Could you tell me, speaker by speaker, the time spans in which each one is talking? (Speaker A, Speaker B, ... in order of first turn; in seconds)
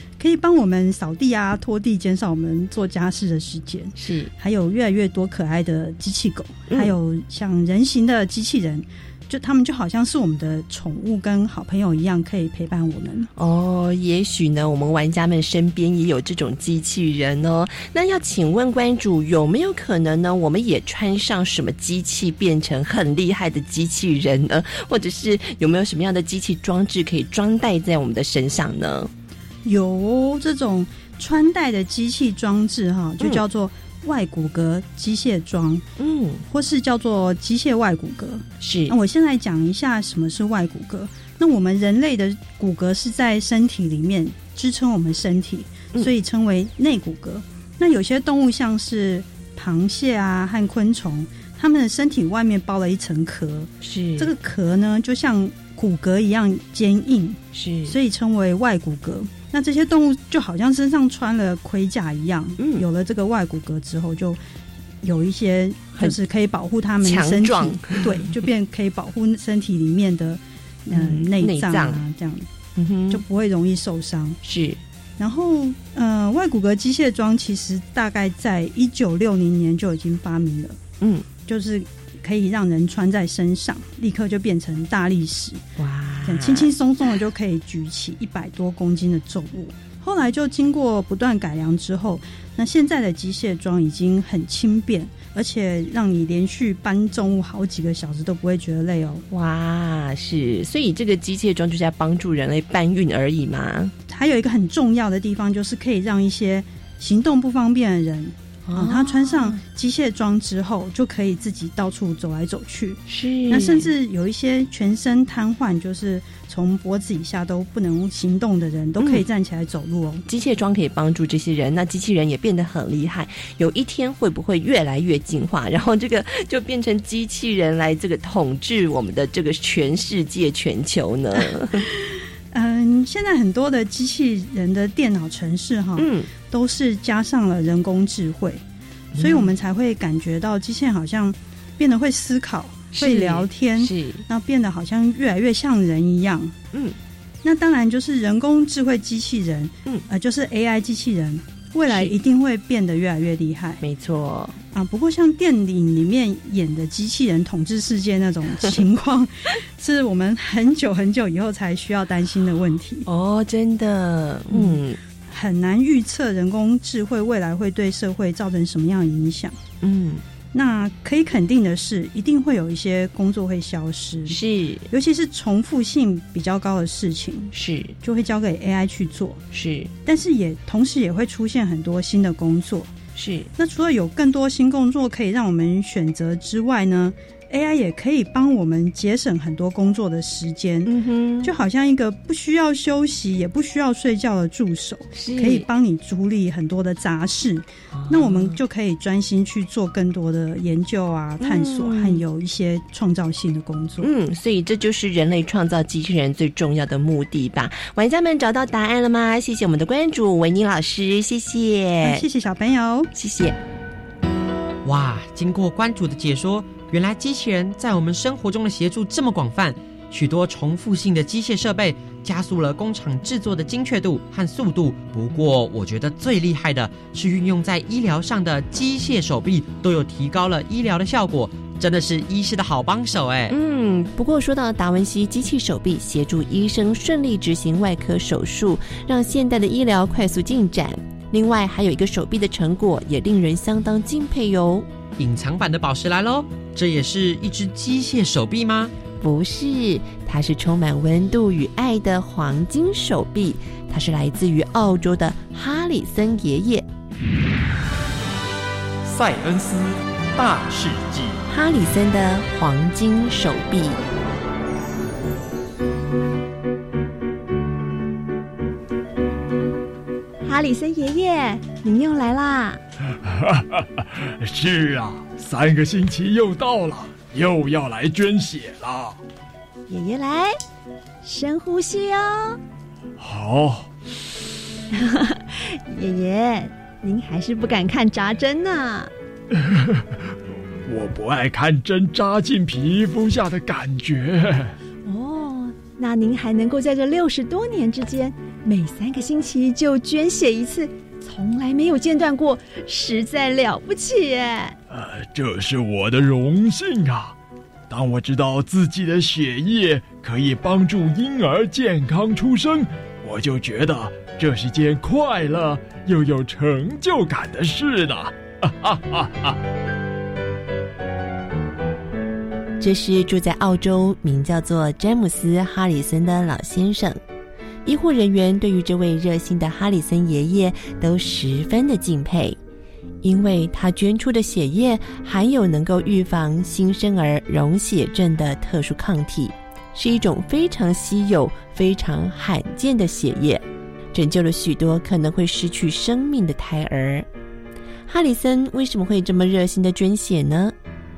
Speaker A: 0.2-13.3, 29.6-35.9, 36.5-64.4, 65.0-72.5, 73.1-74.4, 75.2-80.8, 81.5-85.6, 86.2-99.2, 104.1-120.2, 131.8-138.6, 139.1-146.5, 147.4-153.8, 154.7-163.1, 164.5-169.6, 170.5-177.5, 178.0-179.4, 180.1-182.9, 183.6-190.9, 191.4-204.1, 212.0-213.1
Speaker B: 4.0-4.3, 6.7-7.0, 13.4-29.1, 36.0-36.4, 38.6-39.0, 53.8-54.3, 57.5-58.0, 62.6-62.9, 67.0-68.3, 70.9-72.0, 72.8-73.2, 74.4-74.8, 81.0-81.3, 85.8-86.7, 99.3-103.9, 108.7-109.6, 113.1-113.9, 119.0-119.2, 120.3-131.9, 136.0-136.3, 139.2-139.5, 142.9-144.2, 151.9-152.2, 153.8-154.6, 163.1-165.0, 169.8-170.2, 174.3-174.9, 177.5-178.0, 179.5-179.9, 183.2-183.5, 190.9-191.5, 195.1-195.7, 197.9-198.6, 201.4-202.2, 204.0-212.2, 213.1-213.6, 233.5-244.9, 249.2-256.9, 261.5-264.0, 322.8-327.2, 327.9-332.6, 333.2-347.3, 348.1-350.8
Speaker C: 214.8-233.6, 245.2-248.9
Speaker D: 259.1-261.4
Speaker E: 270.4-272.8, 279.9-280.6, 281.2-282.6, 284.9-289.1, 295.1-304.8
Speaker F: 273.2-279.2, 283.2-283.9, 289.6-290.1, 290.9-294.7, 304.9-307.3, 307.9-319.6